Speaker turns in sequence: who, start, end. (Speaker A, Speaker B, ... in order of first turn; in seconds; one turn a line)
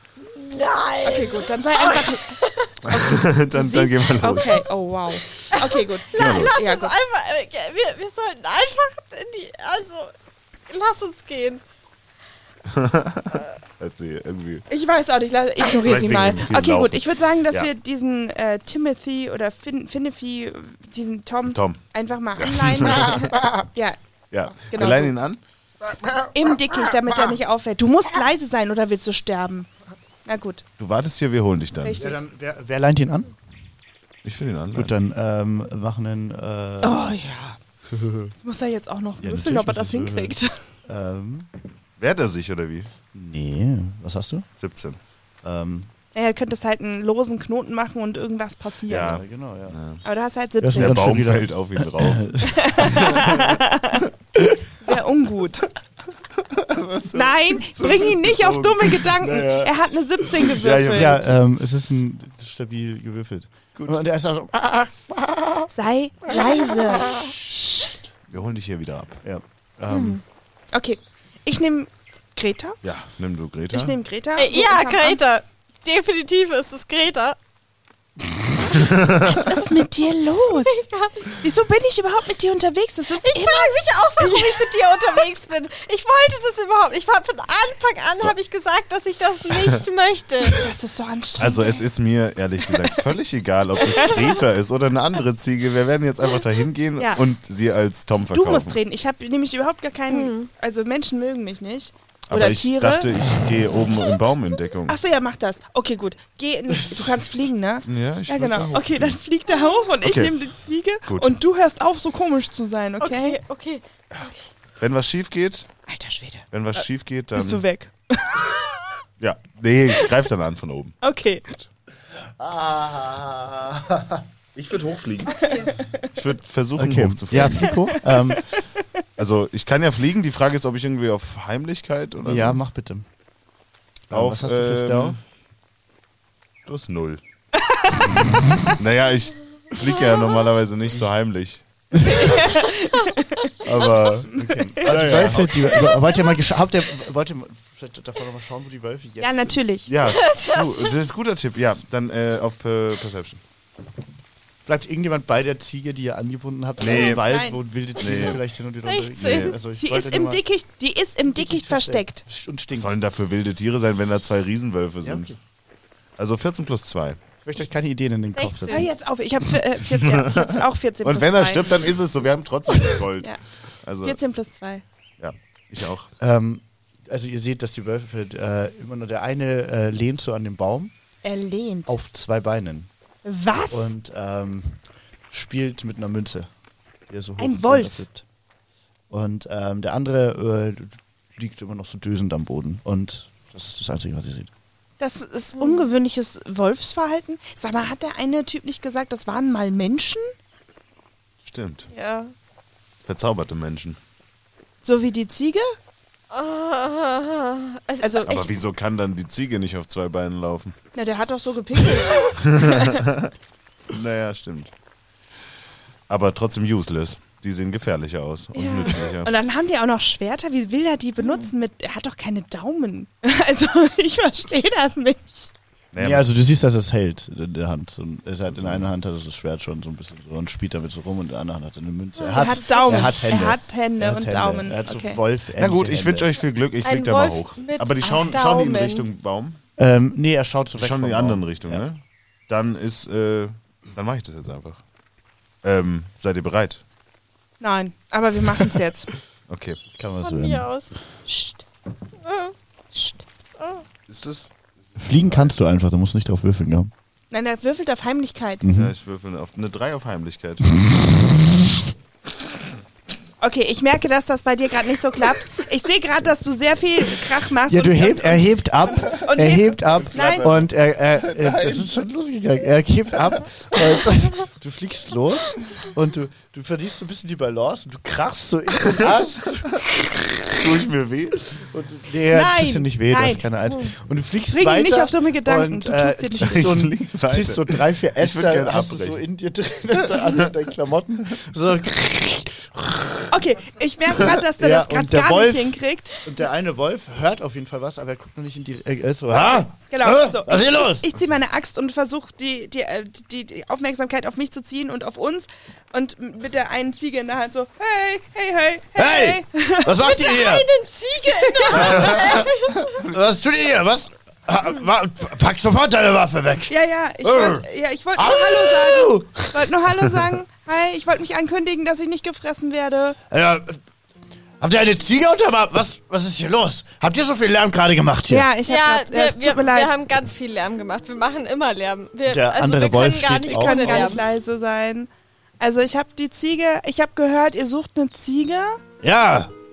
Speaker A: 0.3-2.8
Speaker B: 1.0-6.9
Speaker C: 2.9-4.7
Speaker A: 5.5-10.1
Speaker C: 6.1-6.5
Speaker A: 10.7-11.6
Speaker C: 12.7-14.7
Speaker B: 14.7-24.0
Speaker C: 15.7-17.7
Speaker C: 21.5-21.8
Speaker C: 22.4-23.3
Speaker D: 23.2-23.5
Speaker C: 24.3-25.4
Speaker B: 24.7-25.1
Speaker D: 26.0-26.3
Speaker B: 26.3-29.7
Speaker B: 30.2-30.6
Speaker C: 30.8-32.0
Speaker B: 31.8-32.2
Speaker D: 32.0-33.3
Speaker C: 34.2-34.9
Speaker D: 34.7-37.0
Speaker B: 36.8-37.6
Speaker D: 37.9-38.3
Speaker B: 38.4-40.5
Speaker D: 39.2-40.4
Speaker D: 40.9-41.5
Speaker C: 42.0-42.9
Speaker D: 43.1-44.5
Speaker C: 44.6-45.0
Speaker D: 45.4-45.9
Speaker B: 46.1-49.2
Speaker C: 48.9-50.0
Speaker D: 49.0-49.8
Speaker B: 50.0-51.0
Speaker D: 50.6-53.2
Speaker C: 50.7-53.5
Speaker B: 52.4-54.0
Speaker B: 54.8-55.7
Speaker C: 56.4-59.7
Speaker B: 57.1-61.3
Speaker C: 60.3-61.3
Speaker D: 60.8-65.7
Speaker B: 65.7-67.2
Speaker D: 66.9-67.3
Speaker C: 68.3-69.2
Speaker D: 69.2-70.2
Speaker A: 69.9-70.2
Speaker B: 70.7-72.8
Speaker C: 72.8-74.0
Speaker B: 73.7-75.2
Speaker A: 74.3-77.4
Speaker C: 78.8-79.1
Speaker B: 79.1-85.2
Speaker A: 80.6-81.4
Speaker A: 83.2-90.6
Speaker B: 90.5-91.8
Speaker C: 91.4-98.8
Speaker B: 98.3-103.1
Speaker A: 100.1-100.5
Speaker C: 102.3-105.0
Speaker B: 104.9-113.4
Speaker C: 107.8-109.2
Speaker C: 110.0-110.3
Speaker C: 111.0-111.4
Speaker A: 113.0-114.5
Speaker C: 114.8-115.7
Speaker B: 115.9-116.8
Speaker C: 116.5-117.6
Speaker B: 117.3-118.7
Speaker C: 119.2-121.0
Speaker B: 121.0-121.6
Speaker D: 122.4-124.2
Speaker C: 124.5-127.9
Speaker B: 125.4-125.9
Speaker D: 126.8-128.4
Speaker B: 128.0-128.4
Speaker C: 129.2-132.6
Speaker D: 132.2-133.1
Speaker D: 134.1-135.2
Speaker C: 134.1-135.2
Speaker C: 136.7-137.2
Speaker B: 137.6-138.7
Speaker C: 138.7-141.6
Speaker B: 142.0-143.5
Speaker C: 143.6-144.3
Speaker D: 143.7-149.6
Speaker B: 144.4-145.9
Speaker C: 144.8-145.7
Speaker B: 149.2-149.9
Speaker C: 149.9-153.4
Speaker A: 150.0-150.9
Speaker D: 154.7-160.4
Speaker C: 156.8-157.2
Speaker B: 156.8-157.6
Speaker C: 158.0-158.4
Speaker A: 158.8-159.6
Speaker C: 159.2-159.6
Speaker B: 159.8-162.2
Speaker D: 161.3-162.9
Speaker C: 162.7-165.3
Speaker D: 165.0-165.3
Speaker C: 166.2-167.2
Speaker D: 167.4-168.9
Speaker A: 168.3-168.9
Speaker B: 168.7-171.9
Speaker C: 170.1-170.4
Speaker C: 171.0-174.2
Speaker B: 172.9-173.4
Speaker B: 174.0-174.8
Speaker C: 175.2-176.1
Speaker D: 176.2-180.9
Speaker B: 181.2-181.9
Speaker D: 181.9-182.9
Speaker B: 183.2-183.9
Speaker D: 183.7-186.5
Speaker D: 187.1-188.2
Speaker B: 187.4-188.0
Speaker D: 189.1-194.5
Speaker B: 195.0-200.3
Speaker A: 195.6-195.9
Speaker C: 201.4-201.9
Speaker A: 201.9-202.3
Speaker C: 203.1-204.0
Speaker B: 204.8-205.7
Speaker A: 206.3-208.5
Speaker B: 208.0-208.3
Speaker C: 208.2-210.7
Speaker B: 210.9-213.0
Speaker C: 212.4-213.3
Speaker C: 213.9-214.7
Speaker C: 216.1-219.3
Speaker B: 218.6-225.5
Speaker A: 218.6-218.9
Speaker C: 225.9-226.3
Speaker D: 226.0-236.3
Speaker C: 228.5-228.9
Speaker A: 232.2-233.2
Speaker B: 232.3-235.2
Speaker C: 235.6-239.6
Speaker A: 236.8-239.1
Speaker D: 239.8-241.8
Speaker C: 240.8-244.8
Speaker C: 245.6-246.8
Speaker B: 247.6-249.1
Speaker C: 249.5-249.8
Speaker D: 249.9-250.7
Speaker A: 250.2-250.9
Speaker B: 251.3-251.6
Speaker A: 252.2-252.5
Speaker B: 252.9-253.2
Speaker A: 253.6-253.8
Speaker C: 254.1-255.5
Speaker D: 255.0-256.9
Speaker B: 257.3-258.6
Speaker D: 258.6-258.9
Speaker C: 258.7-260.9
Speaker D: 260.7-261.8
Speaker B: 263.4-268.5
Speaker D: 267.7-280.2
Speaker C: 268.9-271.9
Speaker B: 269.1-270.5
Speaker C: 280.4-281.6
Speaker D: 281.5-293.4
Speaker B: 282.3-283.4
Speaker B: 284.5-286.6
Speaker C: 286.4-289.2
Speaker B: 293.3-296.2
Speaker D: 294.2-301.0
Speaker B: 299.9-310.0
Speaker D: 308.9-310.7
Speaker A: 310.0-313.0
Speaker B: 311.3-312.1
Speaker D: 311.7-317.6
Speaker B: 316.7-323.2
Speaker D: 318.1-319.7
Speaker D: 323.3-323.8
Speaker D: 324.6-328.5
Speaker B: 328.3-329.9
Speaker A: 328.6-334.2
Speaker D: 332.2-334.3
Speaker B: 333.4-338.8
Speaker D: 339.0-339.5